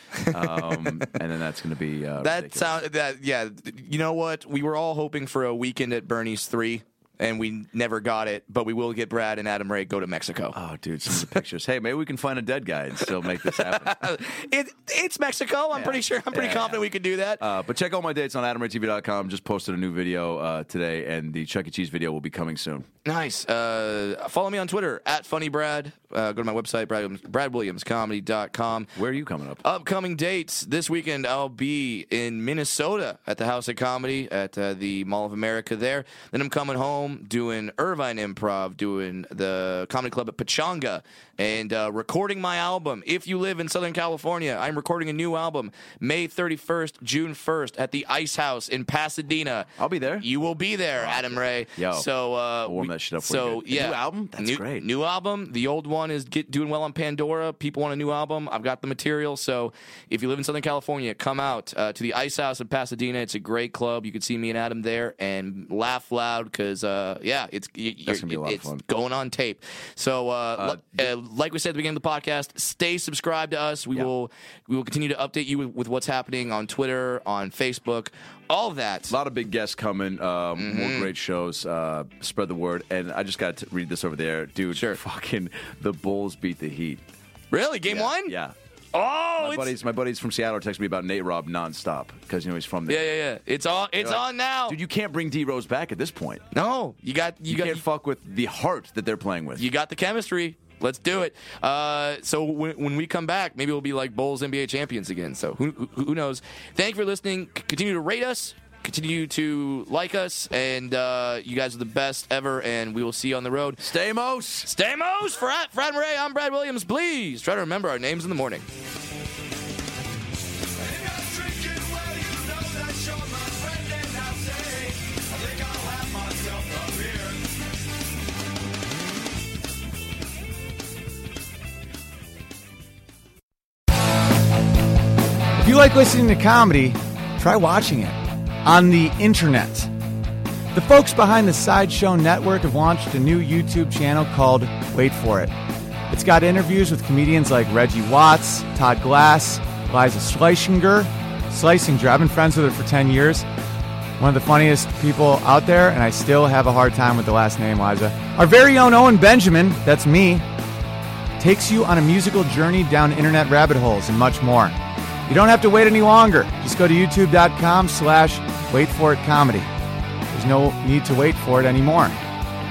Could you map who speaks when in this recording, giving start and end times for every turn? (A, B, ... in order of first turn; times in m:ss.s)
0:00.2-0:01.1 A
0:00.3-0:02.8 B
0:02.2-0:10.6 A
0:10.5-0:14.2 B
0:13.4-0:17.4 A
0:15.7-0:22.9 B
0:23.0-0:28.9 A
0:29.0-0:29.6 B
0:29.6-1:19.1 A
0:49.8-0:50.3 B
0:51.0-0:52.1 B
0:52.6-0:54.9 B
1:08.1-1:08.8 B
1:10.6-1:11.1 B
1:19.1-1:27.0 B
1:20.6-1:21.1 A
1:24.7-1:25.0 A
1:27.5-1:28.3 A
1:27.9-1:28.6 B
1:28.9-1:29.7 A
1:29.4-1:33.2 B
1:32.9-1:34.8 A
1:34.0-1:36.5 B
1:36.5-1:37.8 A
1:37.5-1:39.7 B
1:39.6-1:53.9 A
1:53.8-1:54.7 B
1:54.6-1:58.7 A
2:00.8-2:07.5 B
2:15.6-2:19.9 C
2:20.7-2:25.5 C
2:26.1-2:33.5 C
2:34.2-2:40.5 C
2:41.4-2:49.7 C
2:50.3-2:52.2 C